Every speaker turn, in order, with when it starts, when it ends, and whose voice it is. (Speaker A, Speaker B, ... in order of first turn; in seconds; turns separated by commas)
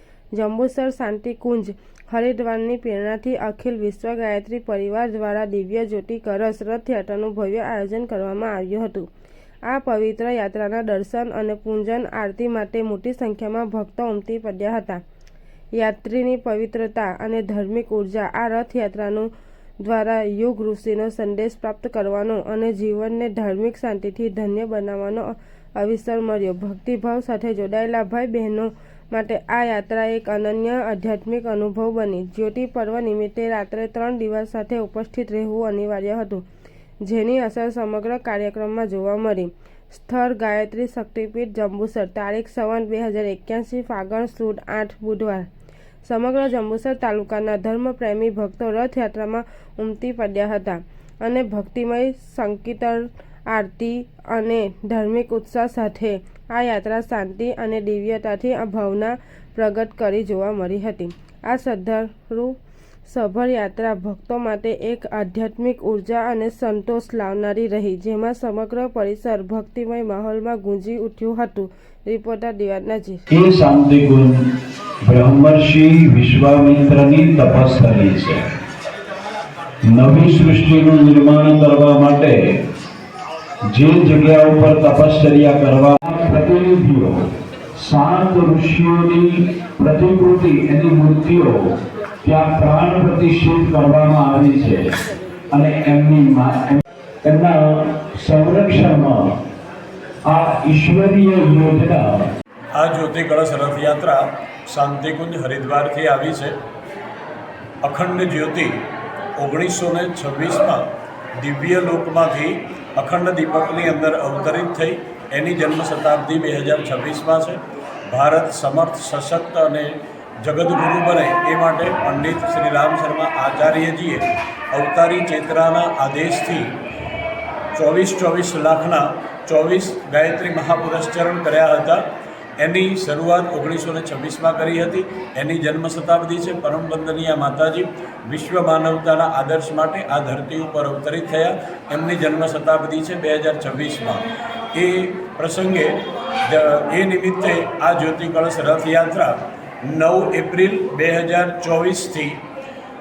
Speaker A: 0.3-9.1, Speaker A: 9.7-15.0, Speaker A: 15.7-19.3, Speaker A: 19.8-36.5, Speaker A: 37.0-45.5, Speaker A: 46.0-73.2, Speaker B: 73.4-74.3, Speaker C: 73.7-74.1, Speaker C: 75.1-78.4, Speaker B: 75.2-75.8, Speaker B: 76.6-78.2, Speaker C: 80.0-82.3, Speaker B: 80.1-82.3, Speaker C: 83.8-87.1, Speaker B: 83.9-87.0, Speaker C: 87.8-89.2, Speaker B: 87.9-89.3, Speaker B: 89.8-91.4, Speaker C: 89.9-91.5, Speaker C: 92.3-94.8, Speaker B: 92.3-94.6, Speaker C: 95.6-96.6, Speaker C: 97.4-99.2, Speaker B: 98.3-99.1, Speaker C: 100.3-102.1, Speaker B: 100.9-101.9, Speaker B: 102.8-106.6, Speaker B: 107.8-108.8, Speaker B: 109.4-126.8, Speaker B: 127.8-132.1, Speaker B: 132.6-152.4